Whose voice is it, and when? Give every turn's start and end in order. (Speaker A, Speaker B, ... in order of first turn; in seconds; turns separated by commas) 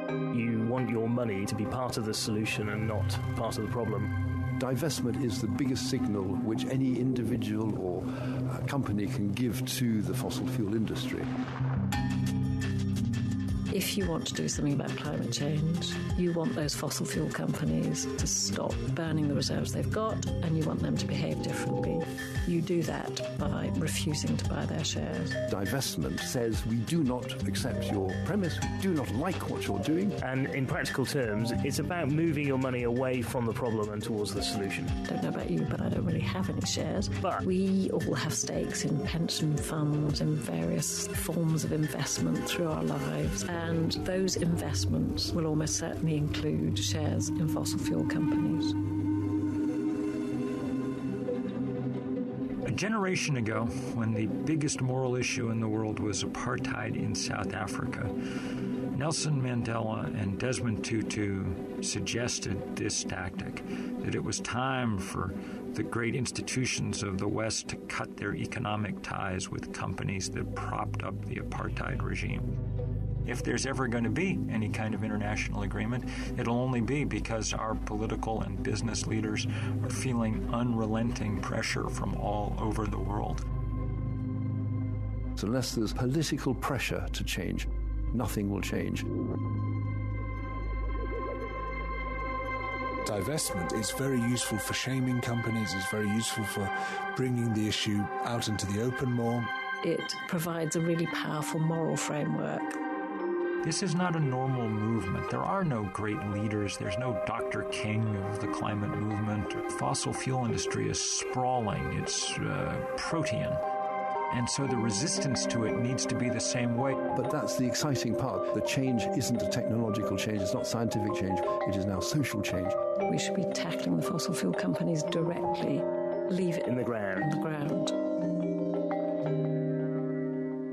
Speaker A: 0.3-4.1, Speaker B: 4.5-11.3, Speaker C: 13.7-25.4, Speaker B: 25.4-30.2, Speaker A: 30.2-35.0, Speaker C: 35.0-48.8, Speaker D: 52.6-58.1, Speaker D: 58.9-72.6, Speaker D: 73.2-83.4, Speaker B: 85.3-89.1, Speaker E: 93.0-99.5, Speaker C: 99.8-102.8, Speaker D: 103.6-113.6, Speaker D: 114.3-117.0, Speaker B: 117.1-122.8, Speaker C: 123.1-126.6, Speaker A: 126.6-127.3, Speaker C: 127.2-127.9